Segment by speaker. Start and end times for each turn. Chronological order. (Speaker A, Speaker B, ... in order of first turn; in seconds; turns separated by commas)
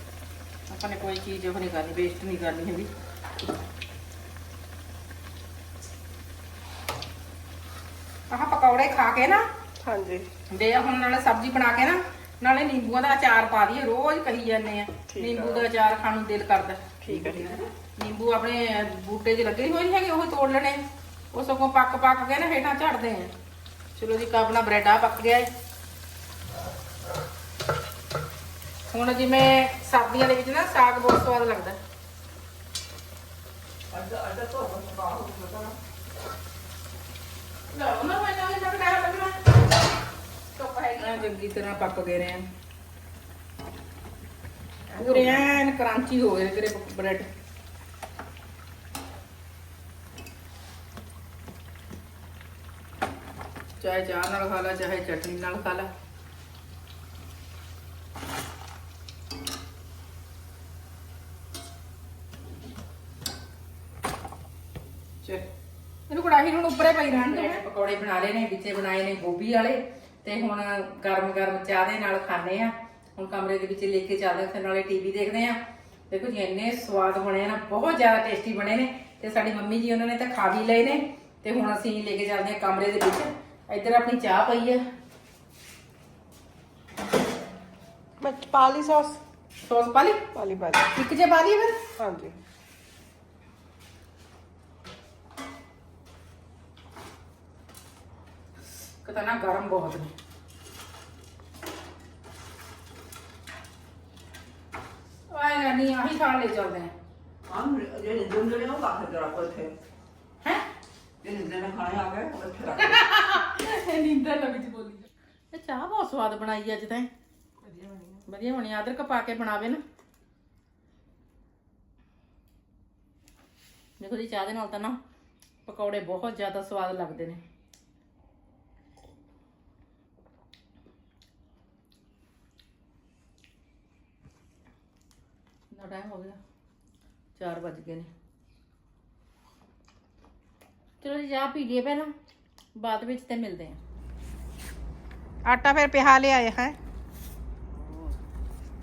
Speaker A: 0.7-2.9, Speaker A: 8.3-9.4, Speaker B: 9.8-10.3, Speaker A: 10.5-20.8, Speaker B: 15.1-15.7, Speaker B: 17.0-17.5, Speaker A: 21.3-23.3, Speaker A: 23.9-25.5, Speaker A: 28.9-31.8, Speaker C: 33.9-35.8, Speaker A: 37.7-39.5, Speaker A: 40.6-42.5, Speaker B: 44.9-45.5, Speaker A: 45.0-47.3, Speaker A: 53.8-55.9, Speaker A: 66.1-75.6, Speaker B: 67.3-67.5, Speaker A: 76.1-84.8, Speaker B: 88.2-89.2, Speaker A: 89.6-90.2, Speaker B: 90.3-90.9, Speaker A: 90.9-91.8, Speaker B: 92.0-92.4, Speaker A: 99.0-100.1, Speaker A: 105.3-106.9, Speaker C: 107.5-109.7, Speaker C: 111.2-113.0, Speaker A: 112.8-117.1, Speaker B: 117.7-118.2, Speaker A: 118.3-119.8, Speaker A: 124.0-125.0, Speaker A: 125.7-127.4, Speaker A: 135.7-136.4, Speaker A: 137.4-138.1, Speaker A: 141.0-142.1, Speaker A: 142.8-143.8, Speaker A: 145.4-146.8, Speaker C: 147.7-148.2